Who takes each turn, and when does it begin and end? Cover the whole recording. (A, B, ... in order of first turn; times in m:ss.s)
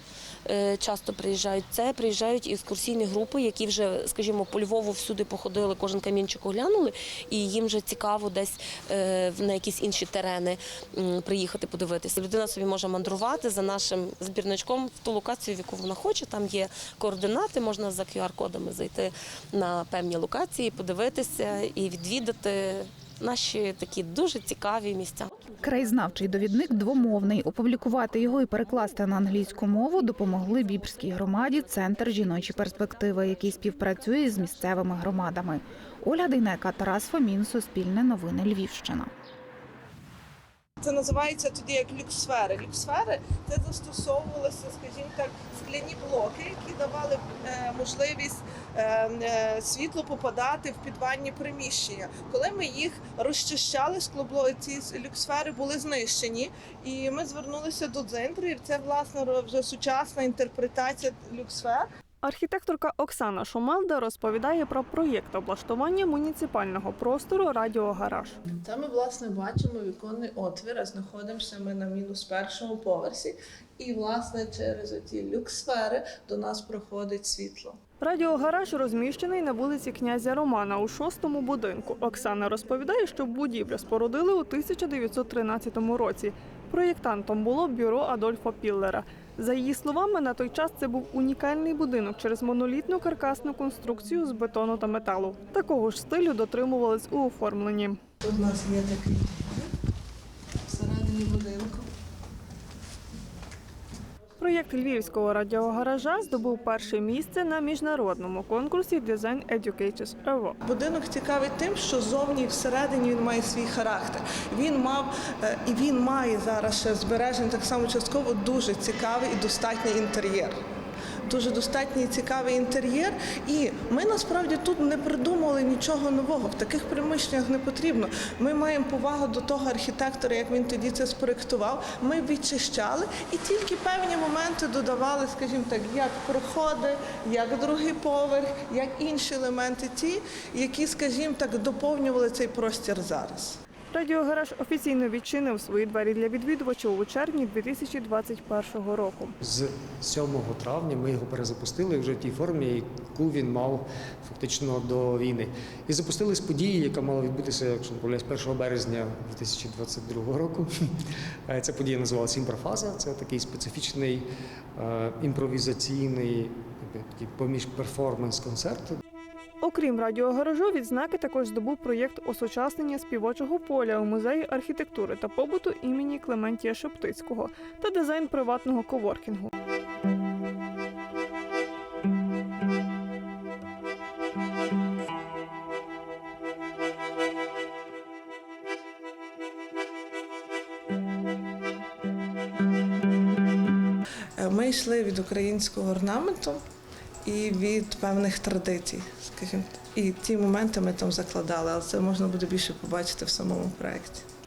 0:00.4-0:25.3 A
0:25.6-0:39.1 B
0:40.8-1:01.8 C
1:02.2-1:08.4 D
1:08.6-1:17.7 C
1:18.0-1:38.0 D
1:38.2-1:39.5 C
1:40.7-1:41.8 C
1:44.4-1:50.6 D
1:50.7-2:00.5 C
2:01.3-2:23.5 C
2:23.9-2:29.3 D
2:29.4-2:40.7 E
2:41.5-2:44.2 E
2:44.8-2:49.0 E
2:49.6-2:59.5 D
3:14.4-3:16.6 C
3:17.2-3:24.2 C